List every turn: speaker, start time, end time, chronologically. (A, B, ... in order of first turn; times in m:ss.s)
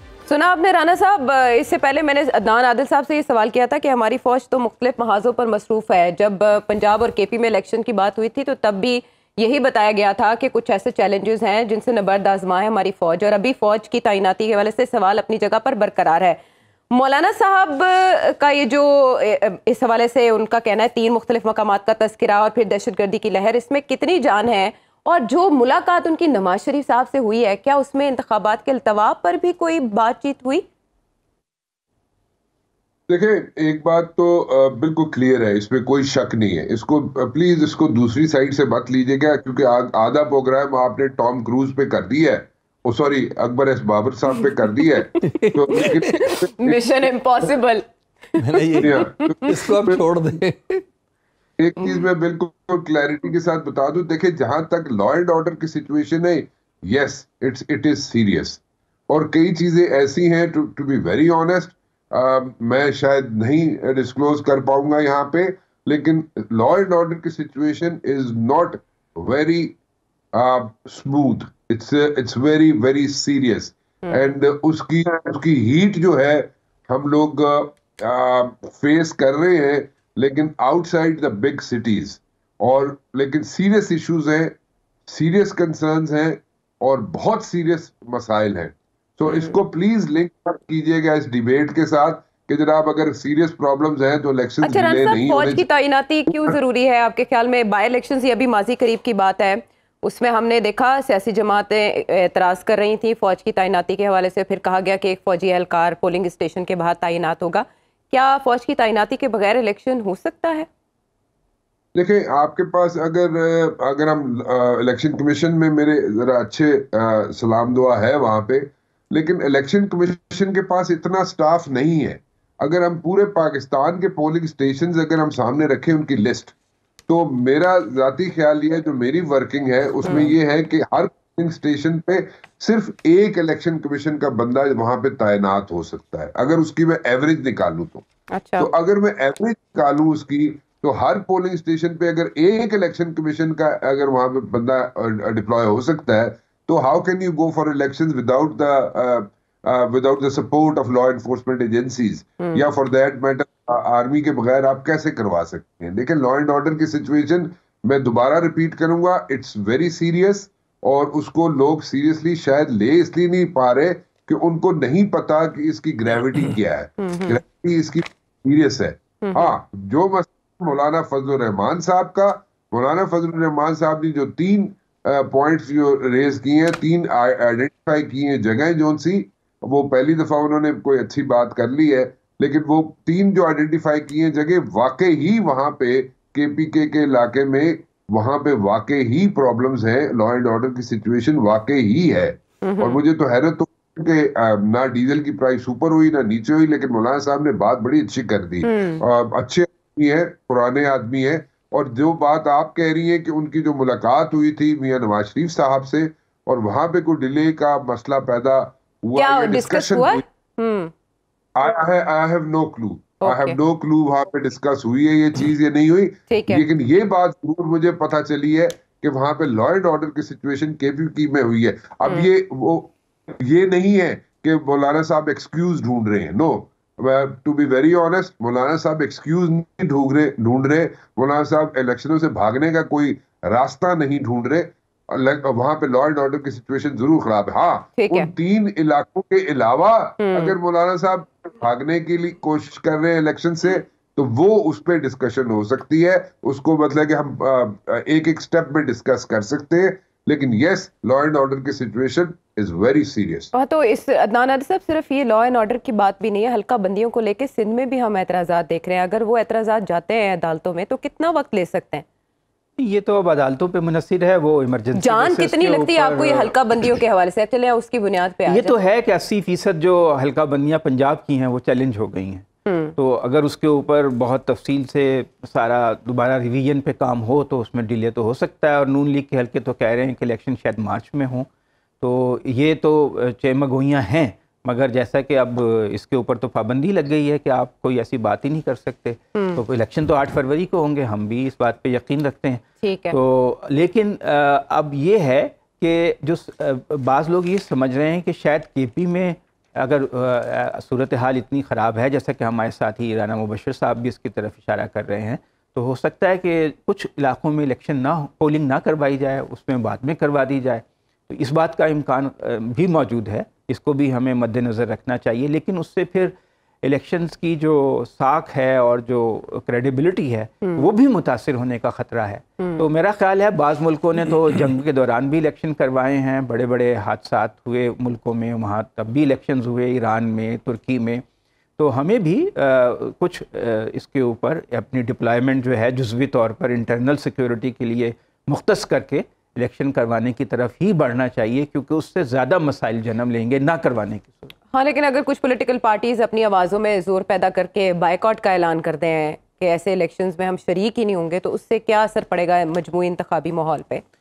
0:00.3-0:16.4 A
0:16.9-0:30.6 A
0:33.1-0:47.1 B
0:45.4-0:45.7 C
0:45.9-0:49.5 A
0:48.4-0:50.8 C
0:48.8-0:50.0 B
0:51.6-1:09.8 B
1:10.3-1:24.5 B
1:25.1-1:35.6 B
1:29.3-1:29.6 A
1:34.6-1:50.7 A
1:51.9-2:06.5 B
2:07.1-2:18.0 B
2:10.0-2:10.3 A
2:18.3-2:18.7 A
2:18.6-3:30.2 B
2:47.0-2:47.4 A
2:49.2-2:49.5 A
3:12.6-3:13.0 A
3:18.6-3:19.0 A
3:29.2-3:30.9 A
3:31.6-4:13.5 B
3:33.2-3:33.6 A
3:36.3-3:36.6 A
3:58.0-3:58.3 A
4:00.2-4:00.6 A
4:13.5-4:22.0 A
4:22.8-4:26.5 D
4:25.0-4:28.7 A
4:28.4-4:41.5 D
4:32.6-4:32.9 A
4:42.0-5:31.2 D
4:49.3-4:49.6 A
4:52.8-4:53.2 A
5:20.6-5:20.9 A
5:22.6-5:22.8 A
5:31.8-5:44.5 D
5:44.7-5:54.0 A